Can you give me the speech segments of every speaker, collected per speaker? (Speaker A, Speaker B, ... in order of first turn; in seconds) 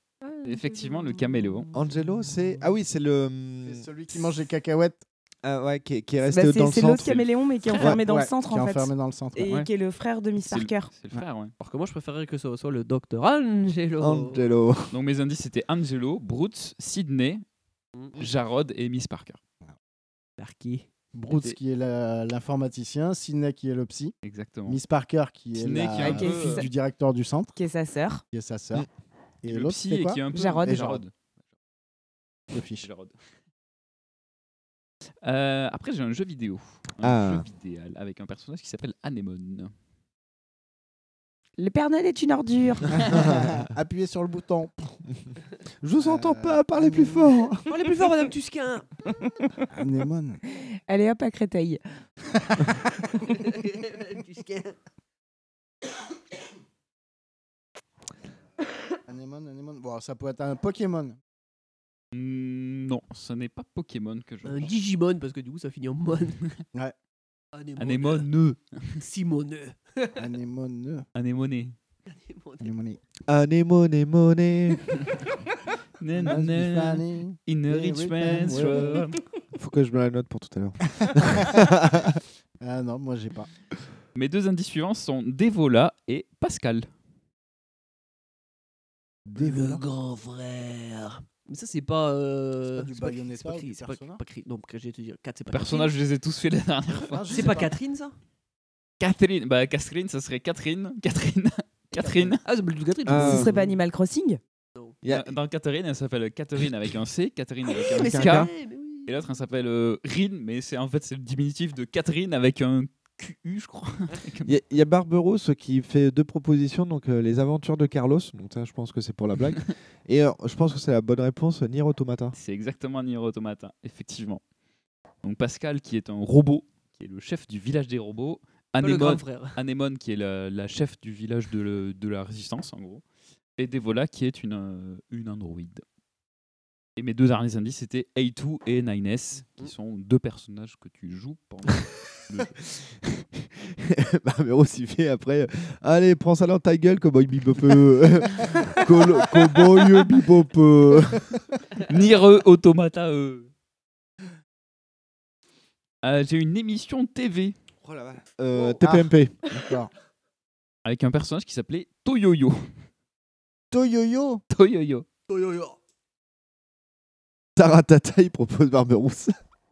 Speaker A: 0.4-1.7, 10.4-11.5, 14.9-17.4, 18.2-19.4, 24.2-24.8, 25.6-26.6, 29.5-31.1, 32.8-33.1, 35.2-39.7, 62.1-64.7, 67.8-69.0, 71.2-71.8, 76.0-79.2, 84.2-86.9, 95.5-97.6, 99.0-102.4, 105.1-108.5, 109.0-114.5, 122.3-124.4, 125.2-133.0, 133.6-135.8, 137.0-143.2, 151.8-153.5, 156.0-157.6, 160.8-162.7, 164.5-165.1
Speaker B: 1.7-3.9, 5.4-8.0, 14.0-14.9, 37.0-37.5, 43.1-43.5, 45.8-47.8, 73.3-74.8, 79.5-82.2, 103.1-103.5, 105.0-105.3, 108.0-108.5, 114.5-122.4, 143.8-151.4, 157.8-159.4, 167.6-169.3
Speaker C: 3.6-5.0, 7.8-9.5, 21.1-24.1, 24.7-27.5, 28.3-28.9, 29.4-31.0, 32.5-32.9, 42.9-44.7, 46.0-47.4, 49.7-50.4, 59.1-61.2, 70.2-71.1, 72.6-73.0, 76.2-79.0, 82.6-83.5, 89.3-89.8, 92.7-94.2, 96.9-97.8, 158.8-159.9, 163.7-164.4
Speaker D: 6.2-10.9, 26.0-26.7, 27.6-28.2, 30.3-30.8, 41.6-42.9, 50.9-51.8, 103.2-104.4
Speaker E: 11.6-14.4, 20.4-20.9, 47.7-48.9, 53.2-54.8, 64.4-66.4, 67.5-68.3, 69.0-70.2, 72.1-72.7, 89.4-96.0, 97.3-98.2, 101.9-103.8, 107.7-109.3, 128.8-129.6, 158.5-158.8, 165.3-165.8